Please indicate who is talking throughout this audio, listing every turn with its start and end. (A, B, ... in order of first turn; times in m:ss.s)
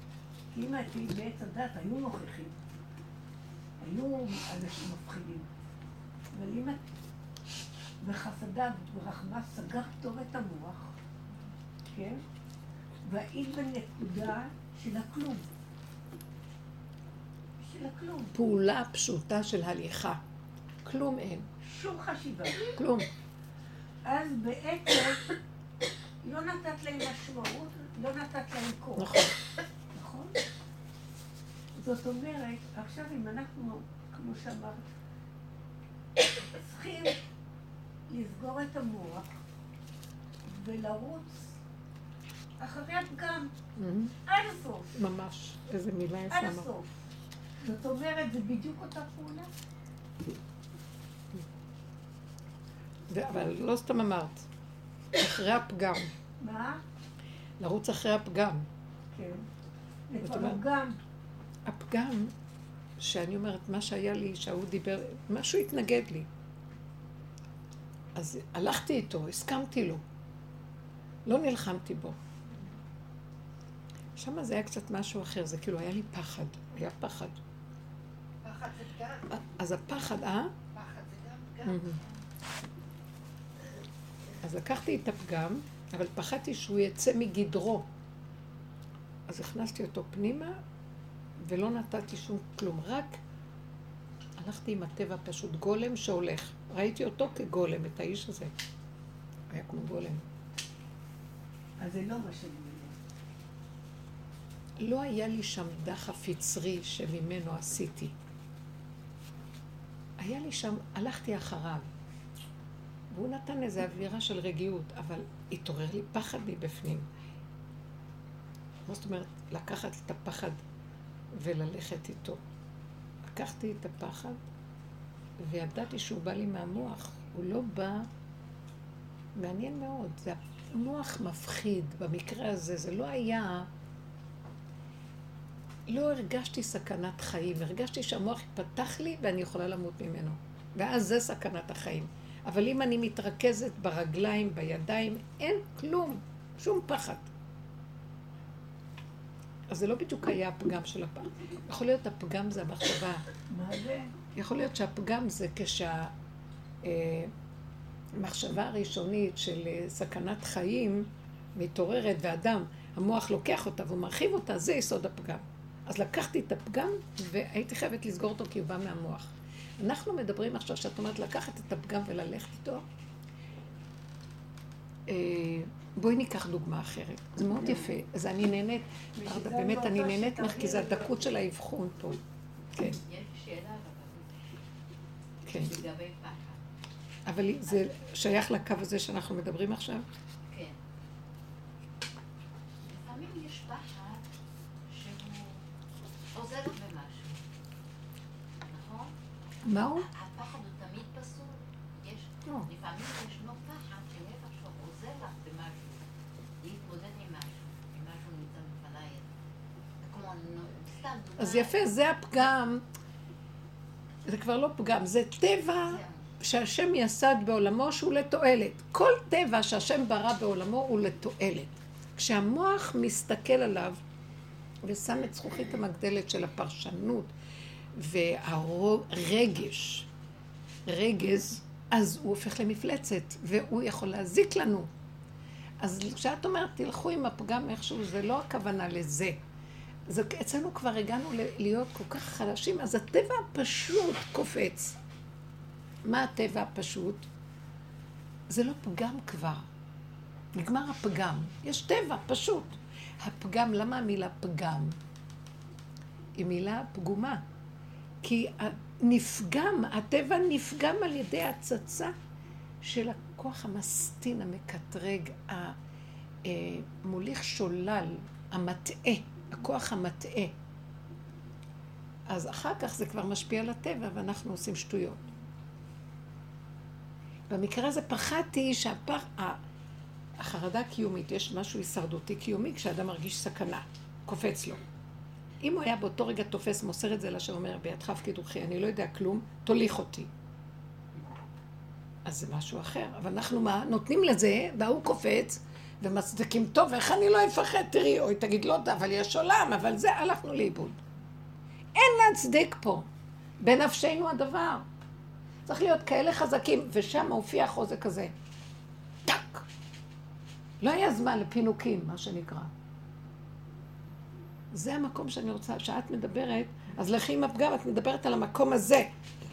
0:00.5-0:02.6 A
0:03.8-0:05.5 A
0:06.3-0:06.8 A
0:08.0-0:11.0 A
0:11.9-0:12.2 A
0:13.0-0:15.5 A
0:17.6-0:18.4 A
0:18.3-0:20.2 B
0:20.8-0:21.5 B
0:21.6-0:22.7 A
0:22.6-0:23.1 B
0:24.0-0:25.3 A
0:26.2-0:29.2 A
0:29.0-0:29.3 B
0:29.9-0:30.4 A
0:31.8-0:34.8 A
0:36.2-0:37.2 A
0:38.1-0:39.3 A
0:40.5-0:41.6 A
0:42.6-0:43.5 A
0:43.8-0:44.2 B
0:44.2-0:44.9 A
0:45.0-0:46.7 B
0:46.3-0:46.9 A
0:47.6-0:49.5 A
0:53.1-0:54.5 B
0:55.2-0:56.1 B
0:56.4-0:56.8 A
0:57.6-0:58.7 B
0:59.1-0:59.4 A
1:00.1-1:01.0 A
1:00.2-1:00.6 B
1:01.7-1:02.3 B
1:03.0-1:06.3 B
1:08.2-1:10.0 B
1:11.3-1:12.2 B
1:14.2-1:17.4 B
1:18.4-1:19.3 C
1:19.3-1:20.5 B
1:20.7-1:22.2 C
1:21.7-1:22.0 B
1:24.4-1:27.9 B
1:29.3-1:30.6 B
1:31.4-1:33.2 B
1:34.4-1:38.5 B
1:39.5-1:40.3 B
1:41.8-1:43.0 A
1:44.8-1:48.2 B
1:50.2-1:51.8 B
1:53.1-1:57.1 B
1:58.9-2:00.6 B
2:01.3-2:02.4 B
2:03.3-2:04.4 B
2:05.4-2:08.1 B
2:09.4-2:13.7 B
2:15.9-2:27.3 B
2:29.7-2:33.3 B
2:33.5-2:34.2 A
2:34.3-2:36.1 B
2:36.8-2:37.3 B
2:38.2-2:52.9 B
2:55.1-3:02.2 B
2:57.6-2:57.9 A
2:59.2-3:01.2 A
3:02.7-3:03.0 B
3:03.0-3:04.3 D
3:05.4-3:05.8 B
3:05.5-3:06.6 D
3:07.3-3:10.0 B
3:10.5-3:10.8 D
3:12.9-3:14.2 D
3:14.9-3:15.6 D
3:16.4-3:17.4 D
3:18.6-3:19.1 D
3:19.6-3:20.1 B
3:20.0-3:26.0 D
3:26.6-3:29.3 D
3:30.0-3:31.8 D
3:31.4-3:32.8 B
3:34.3-3:44.0 B
3:35.8-3:36.2 D
3:44.8-3:47.3 B
3:48.0-3:50.1 B
3:50.9-3:54.9 B
3:55.8-3:59.4 B
4:00.1-4:05.0 B
4:06.0-4:07.3 B
4:08.5-4:09.7 B
4:10.5-4:15.0 B
4:16.4-4:17.4 B
4:18.2-4:22.1 B
4:22.8-4:25.8 B
4:26.4-4:30.5 B
4:32.3-4:35.2 B
4:37.5-4:39.6 B
4:40.4-4:44.8 B
4:45.6-4:50.3 B
4:52.2-5:01.0 B
5:02.0-5:03.1 B
5:03.6-5:04.9 B
5:05.7-5:08.3 B
5:09.2-5:09.7 B
5:10.8-5:12.7 B
5:14.7-5:19.1 B